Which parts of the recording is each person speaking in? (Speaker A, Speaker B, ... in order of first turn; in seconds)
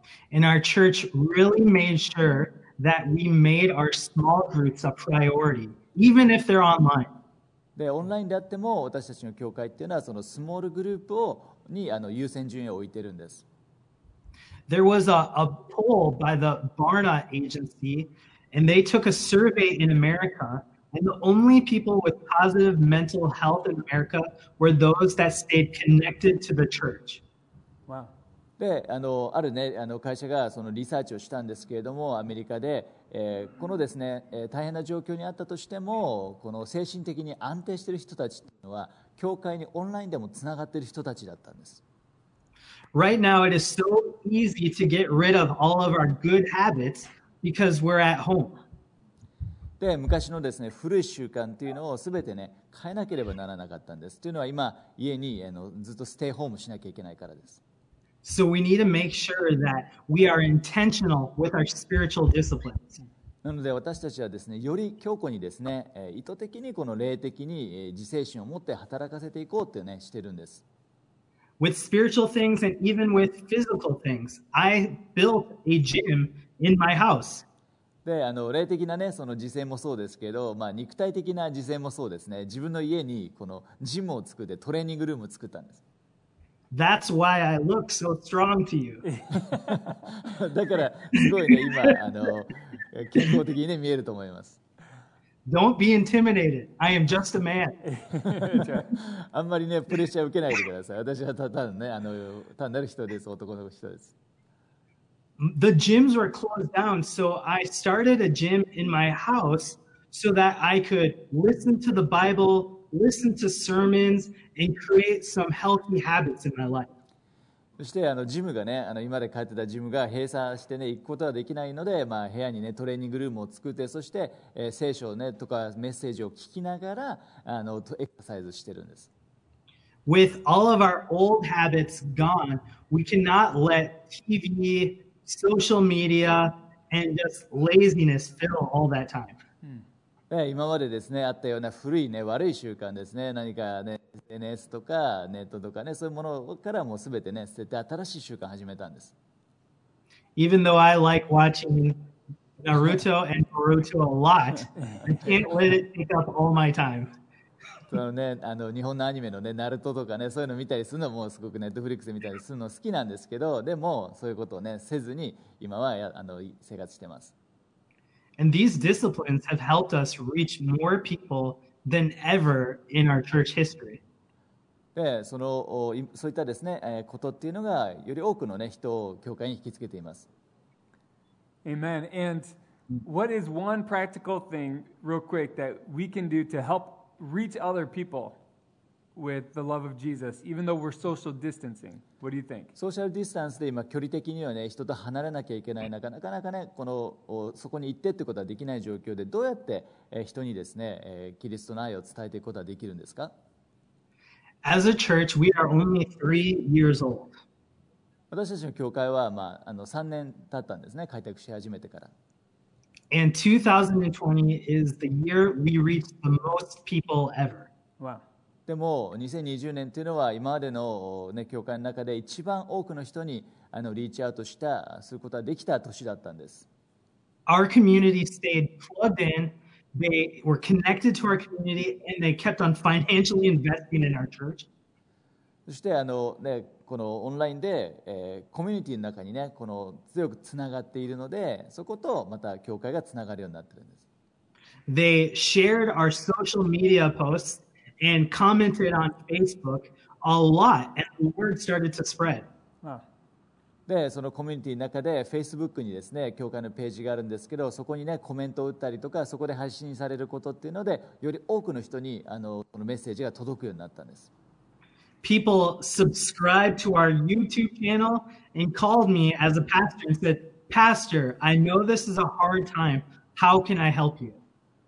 Speaker A: 0.3-7.1, 14.7-27.2, 42.9-48.6, 58.2-63.0, 71.6-77.4, 86.7-89.0, 91.2-91.9, 95.5-97.8, 105.4-116.9, 130.1-139.4, 150.4-152.0, 152.6-157.1, 168.4-174.0, 204.6-207.3, 213.1-217.7, 227.5-234.7, 244.9-252.5, 265.2-274.4
Speaker B: 7.8-13.4, 28.6-41.8, 49.8-57.6, 63.4-70.6, 78.0-85.8, 90.0-94.6, 98.2-104.1, 117.8-129.1, 140.3-149.1, 157.9-167.3, 174.9-180.3, 192.8-203.3, 208.3-212.1, 218.7-226.7, 235.7-244.0, 253.9-264.3
Speaker C: 27.9-28.1, 89.0-89.9, 97.8-98.9, 154.8-155.4, 181.6-188.4, 189.2-192.7